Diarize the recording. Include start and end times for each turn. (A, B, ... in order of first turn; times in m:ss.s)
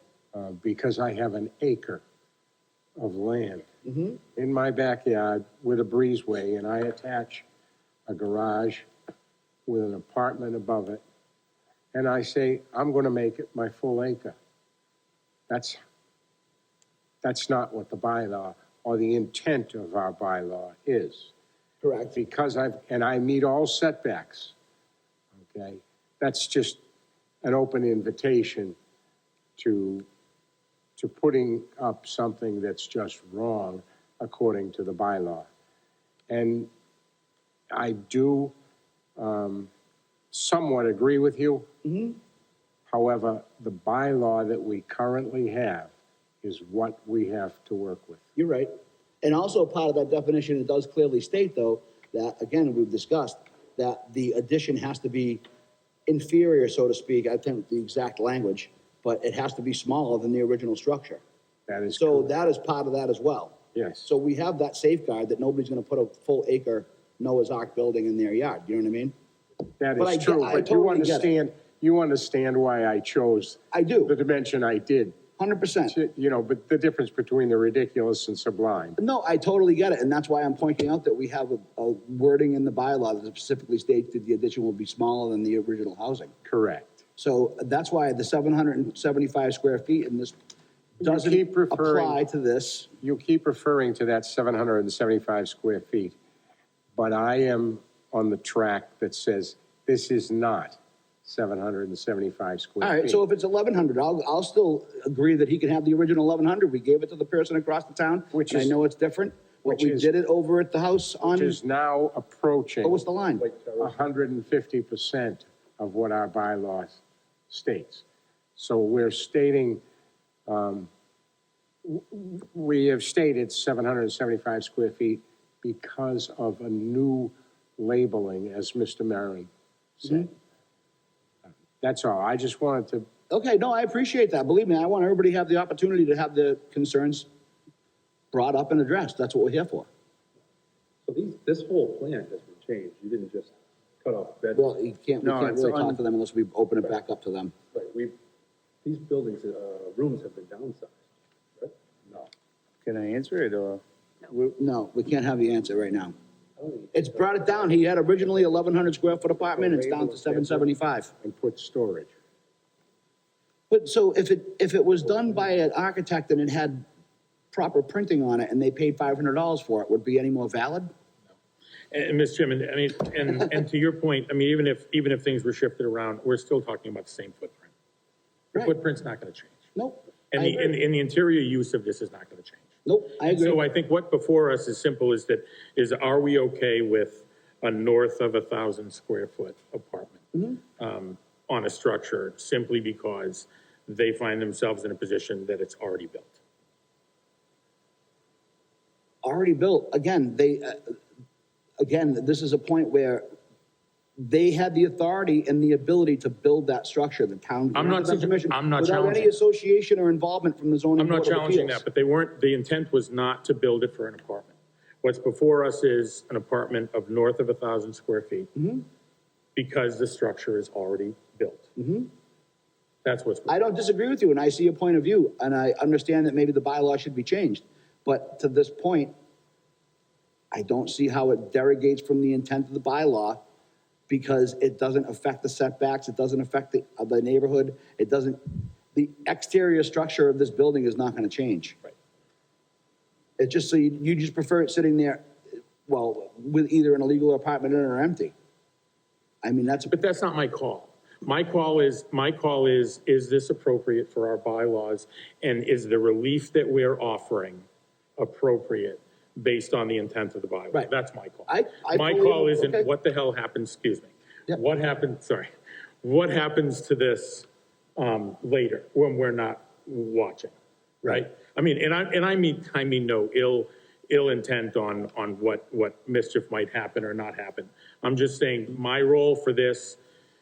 0:00.3-0:02.0 A
0:03.0-0:03.7 A
0:03.8-0:04.2 B
0:04.4-0:07.4 A
0:08.1-0:08.9 A
0:09.7-0:11.0 A
0:11.9-0:14.4 A
0:15.5-0:15.8 A
0:17.2-0:21.3 A
0:21.8-0:22.2 B
0:22.1-0:24.5 A
0:25.4-0:26.8 A
0:27.4-0:28.8 A
0:29.6-0:30.1 A
0:31.0-0:35.5 A
0:36.3-0:36.7 A
0:37.7-0:38.5 A
0:39.2-0:39.7 A
0:40.3-0:41.7 A
0:41.8-0:42.2 B
0:42.9-0:45.9 A
0:46.4-0:48.2 A
0:48.4-0:48.7 B
0:49.2-0:55.4 B
0:56.1-1:01.2 B
1:01.7-1:02.3 A
1:02.0-1:09.1 B
1:03.8-1:04.1 A
1:09.8-1:15.2 A
1:10.0-1:11.3 B
1:13.7-1:14.1 B
1:15.4-1:16.0 B
1:15.9-1:19.0 A
1:19.0-1:26.3 B
1:26.4-1:27.0 A
1:27.2-1:30.4 B
1:31.0-1:32.2 A
1:31.0-1:32.9 B
1:33.0-1:36.2 A
1:37.0-1:43.2 A
1:42.8-1:51.6 B
1:48.3-1:48.8 A
1:49.7-1:50.1 A
1:51.2-1:53.0 A
1:52.8-1:53.5 B
1:53.5-1:53.9 C
1:53.8-1:58.0 A
1:58.6-1:59.8 A
2:00.5-2:00.9 A
2:01.8-2:10.3 A
2:11.8-2:13.1 A
2:13.3-2:17.3 B
2:18.3-2:19.9 B
2:21.1-2:24.7 C
2:24.5-2:27.5 B
2:25.2-2:26.0 D
2:27.7-2:28.2 C
2:28.8-2:31.0 C
2:32.8-2:34.6 D
2:34.6-2:36.1 B
2:36.6-2:37.8 C
2:36.9-2:41.1 B
2:39.5-2:40.6 C
2:41.2-2:42.1 A
2:43.7-2:46.8 B
2:47.5-2:50.9 B
2:51.9-2:57.7 E
2:58.6-2:59.6 E
2:59.8-3:00.8 B
3:00.3-3:02.7 E
3:02.9-3:03.6 B
3:03.2-3:10.2 E
3:10.3-3:10.6 B
3:10.8-3:16.4 E
3:19.2-3:21.0 B
3:21.8-3:23.2 B
3:24.2-3:31.8 B
3:27.7-3:29.3 E
3:31.0-3:38.5 E
3:38.6-3:38.8 B
3:39.6-3:41.7 E
3:41.8-3:42.1 B
3:43.0-3:43.5 E
3:43.5-3:49.1 B
3:50.5-3:53.4 B
3:54.1-4:01.8 B
4:03.4-4:05.2 B
4:05.8-4:08.3 B
4:09.4-4:10.0 B
4:09.9-4:17.6 E
4:18.2-4:25.5 E
4:21.5-4:22.9 B
4:26.0-4:30.5 E
4:31.0-4:40.0 E